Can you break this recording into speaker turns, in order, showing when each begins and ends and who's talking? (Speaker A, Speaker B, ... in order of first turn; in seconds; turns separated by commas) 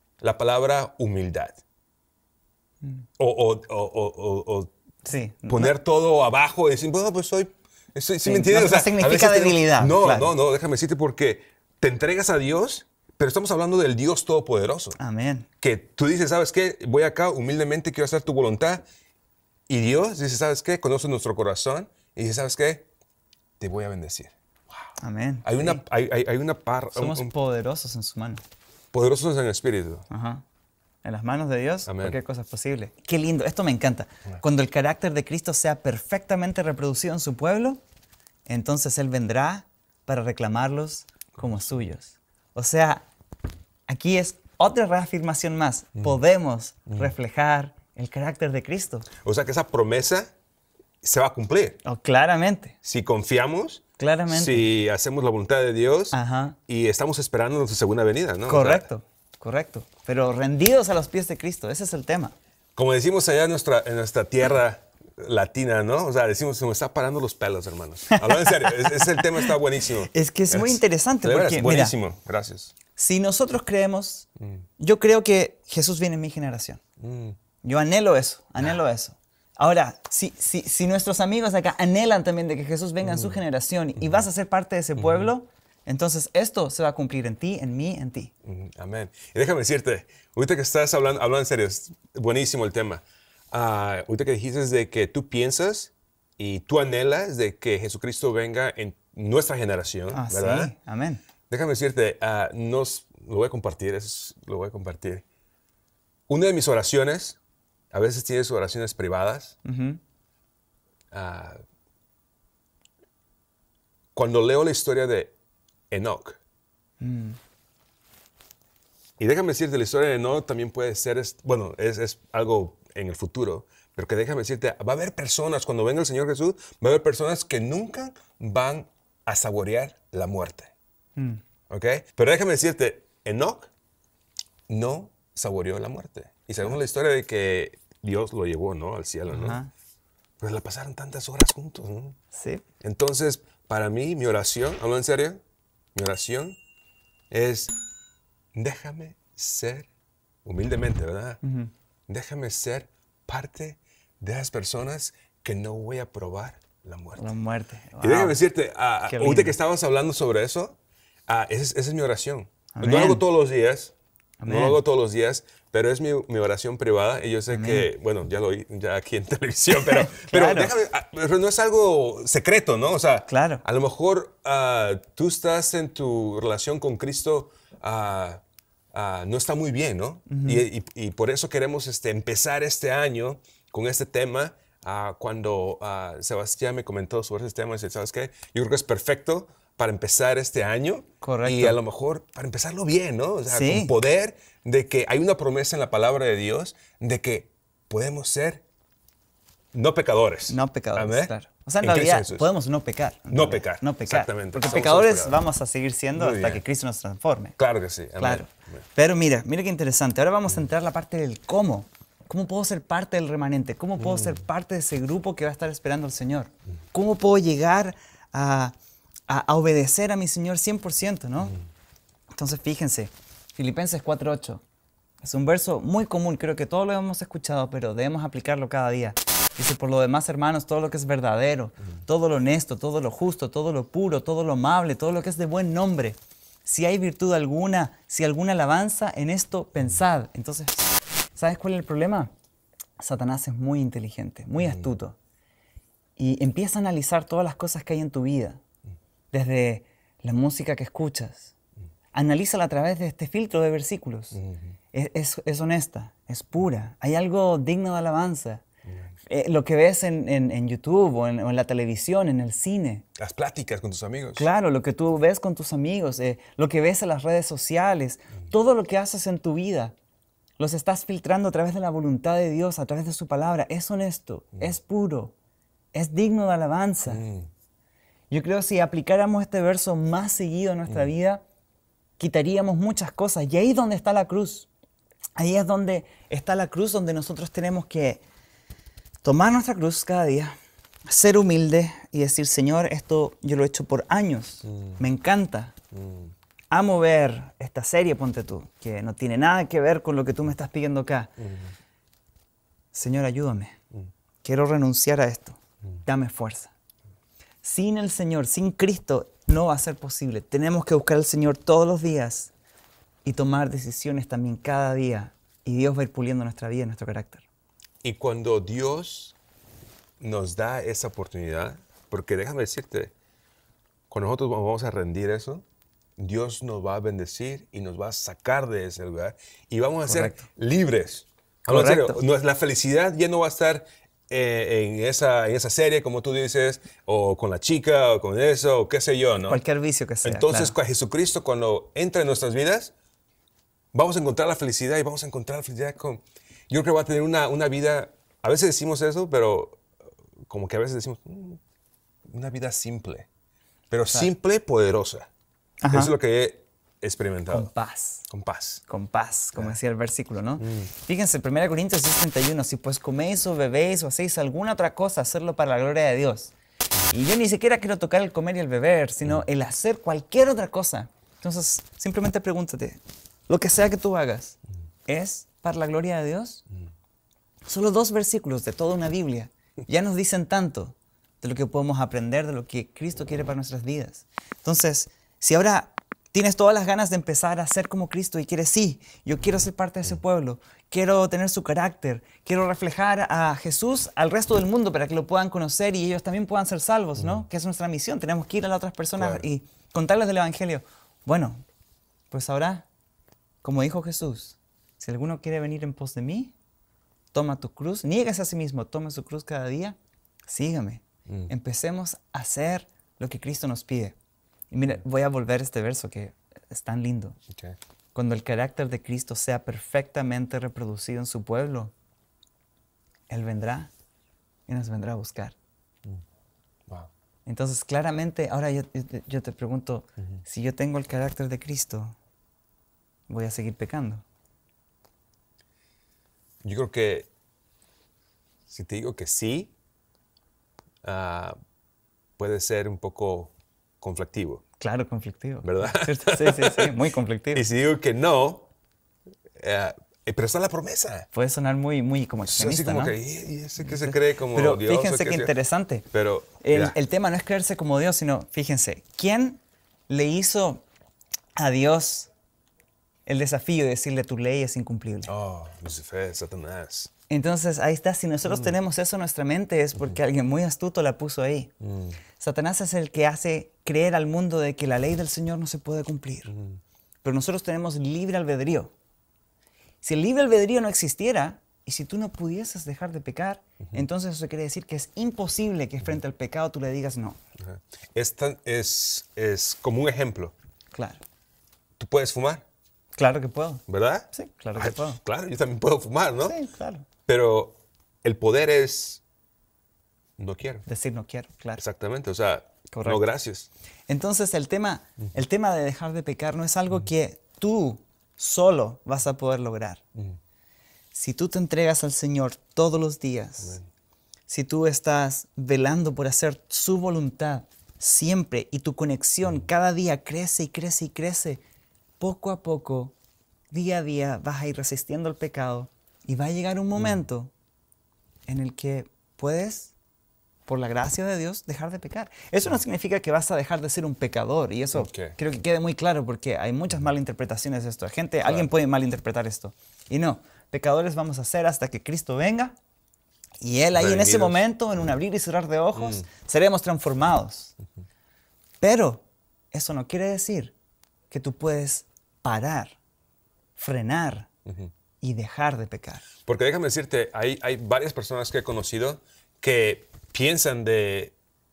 Speaker A: 0.2-1.6, Speaker A: 3.2-4.7, Speaker B: 5.0-5.7, Speaker A: 5.5-15.0, Speaker B: 8.2-10.3, Speaker B: 15.0-15.5, Speaker A: 15.6-18.9, Speaker A: 19.7-22.9, Speaker A: 23.6-24.3, Speaker B: 25.0-25.8, Speaker A: 25.4-27.3, Speaker B: 26.9-28.4, Speaker A: 28.9-30.1, Speaker B: 30.1-30.4, Speaker B: 31.0-37.8, Speaker A: 31.9-32.2, Speaker B: 38.5-43.0, Speaker A: 41.4-41.8, Speaker B: 43.9-49.1, Speaker A: 49.2-50.3, Speaker A: 51.0-51.8, Speaker B: 51.9-52.8, Speaker A: 52.8-58.9, Speaker B: 54.0-54.7, Speaker B: 56.1-56.6, Speaker B: 58.5-62.3, Speaker A: 62.8-72.7, Speaker B: 68.1-69.6, Speaker B: 70.1-72.0, Speaker B: 73.0-74.3, Speaker A: 74.4-74.7, Speaker B: 74.8-76.8, Speaker A: 77.0-77.4, Speaker B: 77.6-88.3, Speaker A: 83.0-83.4, Speaker A: 85.0-85.3, Speaker A: 88.5-100.7, Speaker B: 100.1-101.2, Speaker A: 101.5-105.2, Speaker A: 106.3-107.4, Speaker A: 107.9-109.6, Speaker B: 109.7-110.0, Speaker A: 111.1-111.6, Speaker A: 114.2-115.3, Speaker A: 115.9-116.4, Speaker B: 117.0-117.4, Speaker A: 119.2-130.7, Speaker B: 131.2-131.4, Speaker A: 131.7-133.7, Speaker A: 134.7-139.6, Speaker B: 139.3-139.7, Speaker A: 140.4-142.2, Speaker B: 142.3-142.6, Speaker A: 142.8-145.4, Speaker A: 145.9-146.6, Speaker A: 147.3-147.7, Speaker A: 148.6-149.9, Speaker A: 150.4-151.4, Speaker B: 151.4-151.7, Speaker A: 152.1-157.3, Speaker B: 157.2-158.4, Speaker A: 158.0-160.8, Speaker B: 159.1-159.6, Speaker A: 161.3-163.9, Speaker B: 162.7-163.2, Speaker B: 164.4-164.8, Speaker A: 164.5-178.4, Speaker B: 167.5-167.9, Speaker B: 169.7-170.7, Speaker B: 173.3-173.6, Speaker A: 178.9-198.6, Speaker B: 180.3-180.7, Speaker B: 191.2-191.8, Speaker B: 193.5-193.9, Speaker A: 199.7-202.5, Speaker B: 200.5-207.6, Speaker A: 203.3-205.4, Speaker A: 206.2-206.6, Speaker A: 207.6-208.8, Speaker B: 208.2-218.8, Speaker A: 214.0-214.4, Speaker B: 219.3-221.6, Speaker B: 222.3-224.6, Speaker B: 225.2-242.3, Speaker B: 243.0-245.2, Speaker A: 244.6-244.9, Speaker B: 246.2-248.6, Speaker B: 249.3-251.5, Speaker B: 252.1-254.4, Speaker A: 254.3-254.7, Speaker B: 254.9-258.6, Speaker B: 259.3-263.1, Speaker A: 263.2-264.5, Speaker B: 264.4-269.9, Speaker B: 270.6-275.3, Speaker B: 275.9-277.2, Speaker A: 277.1-277.5, Speaker B: 278.3-281.4, Speaker B: 282.2-284.7, Speaker B: 285.4-288.2, Speaker B: 289.2-295.8, Speaker A: 294.6-295.0, Speaker A: 295.9-296.3, Speaker B: 296.7-301.3, Speaker A: 301.4-301.7, Speaker B: 302.9-303.8, Speaker B: 304.4-306.7, Speaker B: 307.6-312.5, Speaker B: 313.2-317.4, Speaker A: 318.0-319.4, Speaker A: 320.2-323.1, Speaker A: 324.1-325.6, Speaker A: 326.2-339.6, Speaker B: 330.0-330.4, Speaker B: 331.7-332.2, Speaker B: 339.5-340.8, Speaker A: 340.2-342.9, Speaker A: 343.9-349.8, Speaker A: 350.5-351.6, Speaker A: 352.3-353.3, Speaker A: 353.9-355.3, Speaker B: 355.8-356.1, Speaker A: 355.9-357.7, Speaker B: 357.5-358.3, Speaker A: 358.3-358.8, Speaker B: 358.9-366.5, Speaker A: 360.6-360.9, Speaker B: 367.1-376.6, Speaker B: 377.7-401.6, Speaker A: 399.2-399.4, Speaker B: 402.3-402.9, Speaker B: 403.6-406.5, Speaker B: 407.3-414.2, Speaker B: 414.7-417.4, Speaker A: 417.5-417.8, Speaker B: 418.1-421.9, Speaker B: 423.3-423.9, Speaker B: 424.7-425.6, Speaker B: 427.5-432.2, Speaker B: 433.3-434.2, Speaker A: 436.6-437.3, Speaker A: 438.7-439.7, Speaker A: 441.0-441.6, Speaker A: 442.4-444.6, Speaker B: 444.8-447.7, Speaker A: 445.6-446.9, Speaker A: 447.5-448.7, Speaker A: 449.6-451.3, Speaker B: 451.3-453.2, Speaker A: 452.5-455.5, Speaker B: 453.8-456.1, Speaker A: 456.1-457.0, Speaker B: 456.6-460.8, Speaker B: 461.6-462.3, Speaker B: 463.3-465.3, Speaker A: 465.3-467.1, Speaker B: 467.3-471.7, Speaker A: 468.4-468.8, Speaker A: 471.8-472.2, Speaker B: 472.4-476.5, Speaker A: 476.5-476.8, Speaker B: 477.2-478.9, Speaker B: 480.0-487.4, Speaker A: 487.6-490.5, Speaker B: 490.9-491.2, Speaker A: 492.0-492.6, Speaker B: 493.1-495.2, Speaker A: 493.9-496.6, Speaker B: 496.4-497.1, Speaker A: 497.3-499.2, Speaker A: 500.4-500.9, Speaker B: 500.9-501.8, Speaker A: 501.8-503.7, Speaker B: 502.9-503.2, Speaker B: 504.1-510.0, Speaker B: 511.1-513.8, Speaker A: 513.6-513.9, Speaker B: 514.5-521.6, Speaker B: 522.2-523.1, Speaker B: 523.7-527.5, Speaker A: 527.0-527.2, Speaker B: 528.5-529.9, Speaker B: 530.7-542.8, Speaker A: 534.9-535.4, Speaker B: 543.6-547.7, Speaker A: 543.9-544.6, Speaker A: 546.0-546.3, Speaker B: 548.8-550.8, Speaker B: 551.3-553.0, Speaker B: 553.8-554.5, Speaker A: 554.7-554.9, Speaker B: 555.2-556.2, Speaker A: 556.5-561.3